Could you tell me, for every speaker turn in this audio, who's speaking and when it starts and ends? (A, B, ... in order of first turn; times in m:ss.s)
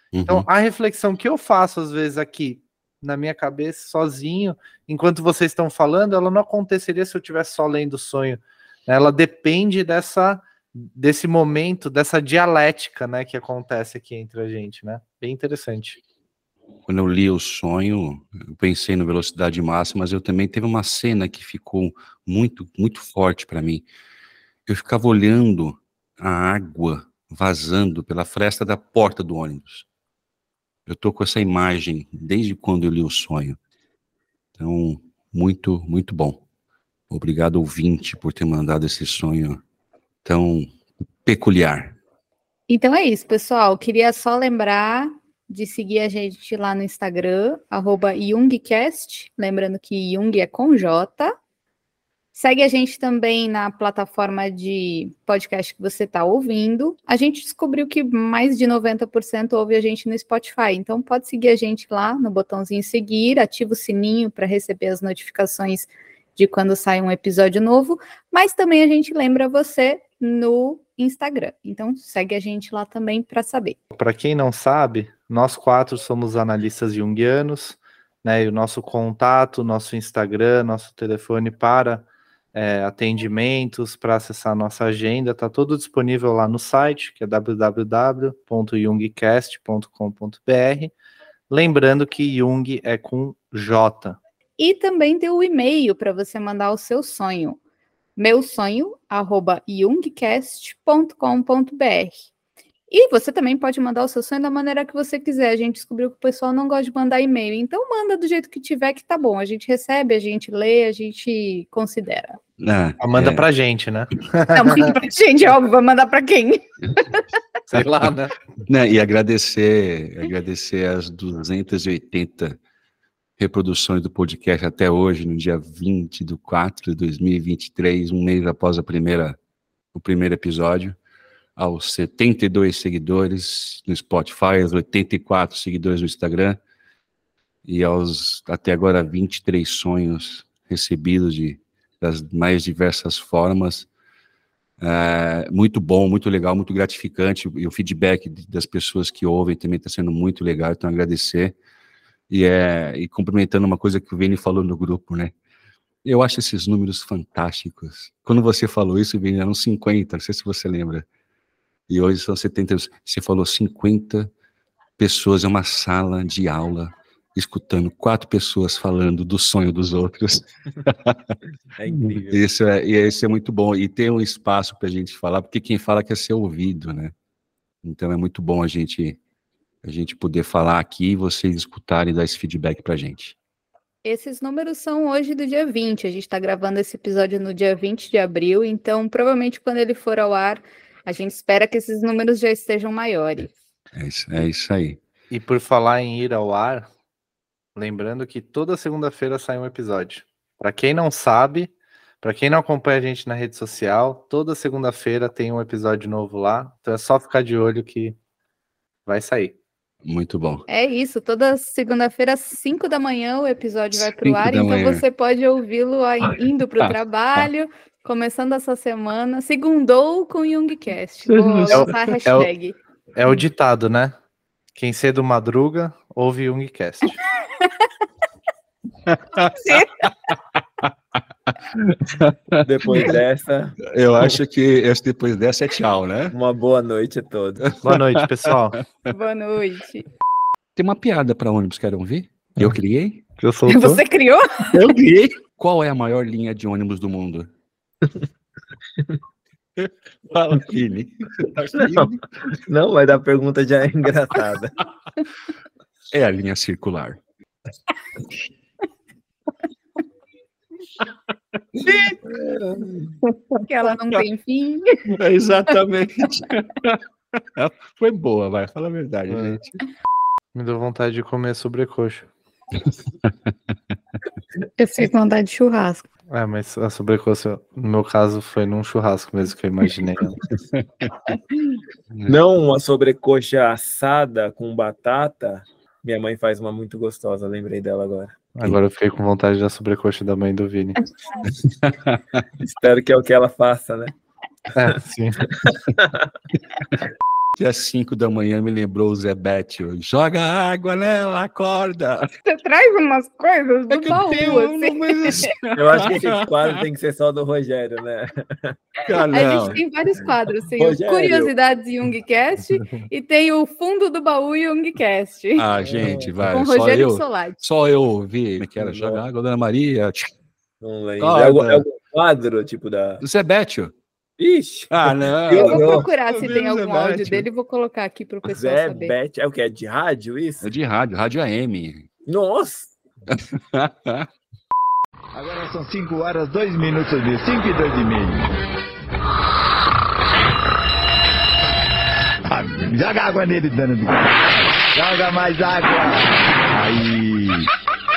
0:00.1-0:00.5 A
0:00.3-0:16.0 B
0:16.9-0:23.9 A
0:24.7-0:29.8 A
0:30.9-0:33.6 A
0:34.6-0:36.4 A
0:37.1-0:39.6 A
0:40.2-0:40.7 A
0:41.2-0:42.0 A
0:42.7-0:51.3 C
0:52.3-1:13.8 C
1:13.9-1:30.9 B
1:31.5-1:34.2 B
1:34.6-1:37.6 C
1:38.2-1:42.2 C
1:42.9-1:52.4 C
1:52.6-1:53.5 A
1:53.0-1:55.0 B
1:54.5-1:57.2 C
1:57.7-1:58.4 B
1:57.7-1:58.1 A
1:58.7-2:02.6 A
2:03.4-2:09.4 A
2:09.9-2:11.0 A
2:11.6-2:16.6 A
2:17.6-2:23.9 A
2:24.8-2:31.6 A
2:32.3-2:35.4 A
2:36.0-2:41.1 A
2:41.9-2:44.3 A
2:45.0-2:51.4 A
2:51.8-2:52.4 D
2:52.0-2:57.1 A
2:57.8-2:59.2 A
2:59.8-3:03.4 A
3:04.0-3:13.5 C
3:13.9-3:15.0 A
3:15.3-3:16.9 B
3:17.8-3:28.2 B
3:29.1-3:29.6 B
3:30.0-3:30.6 A
3:30.7-3:42.8 C
3:33.9-3:35.0 A
3:36.3-3:37.5 A
3:41.3-3:42.1 A
3:41.7-3:42.5 B
3:43.2-3:44.2 B
3:44.8-3:47.2 B
3:49.1-3:50.6 A
3:49.6-3:49.9 C
3:51.7-3:53.1 A
3:52.6-3:53.8 D
3:53.9-3:56.4 A
3:56.3-3:57.6 D
3:57.6-3:58.0 A
3:57.8-3:58.8 B
3:59.1-4:00.0 C
4:00.8-4:03.2 A
4:03.4-4:04.0 B
4:03.7-4:04.7 C
4:04.7-4:07.5 A
4:09.8-4:12.2 A
4:11.8-4:14.8 D
4:16.1-4:17.2 A
4:21.8-4:22.2 A
4:23.7-4:25.0 C
4:25.1-4:29.8 A
4:29.3-4:29.6 B
4:30.6-4:32.3 B
4:33.2-4:33.5 A
4:34.8-4:36.0 C
4:36.3-4:40.4 B
4:40.7-4:41.1 A
4:42.3-4:48.3 D
4:48.6-4:51.0 B
4:51.6-4:52.4 A
4:52.6-4:54.1 D
4:54.8-4:55.4 B
4:55.6-4:56.3 D
4:57.6-5:02.3 A
5:02.4-5:05.5 C
5:03.9-5:06.8 A
5:05.7-5:08.8 D
5:09.1-5:09.8 A
5:09.3-5:15.7 C
5:10.2-5:11.5 D
5:15.6-5:20.3 A
5:15.8-5:16.4 D
5:16.5-5:17.6 C
5:18.8-5:19.2 D
5:20.8-5:23.2 D
5:21.2-5:21.9 A
5:23.2-5:23.9 A
5:24.4-5:26.1 D
5:24.9-5:27.5 A
5:25.5-5:29.2 C
5:28.5-5:30.7 D
5:30.6-5:32.1 A
5:32.3-5:33.0 D
5:33.3-5:34.3 A
5:35.3-5:38.5 E
5:42.5-5:44.4 E
5:44.9-5:47.7 E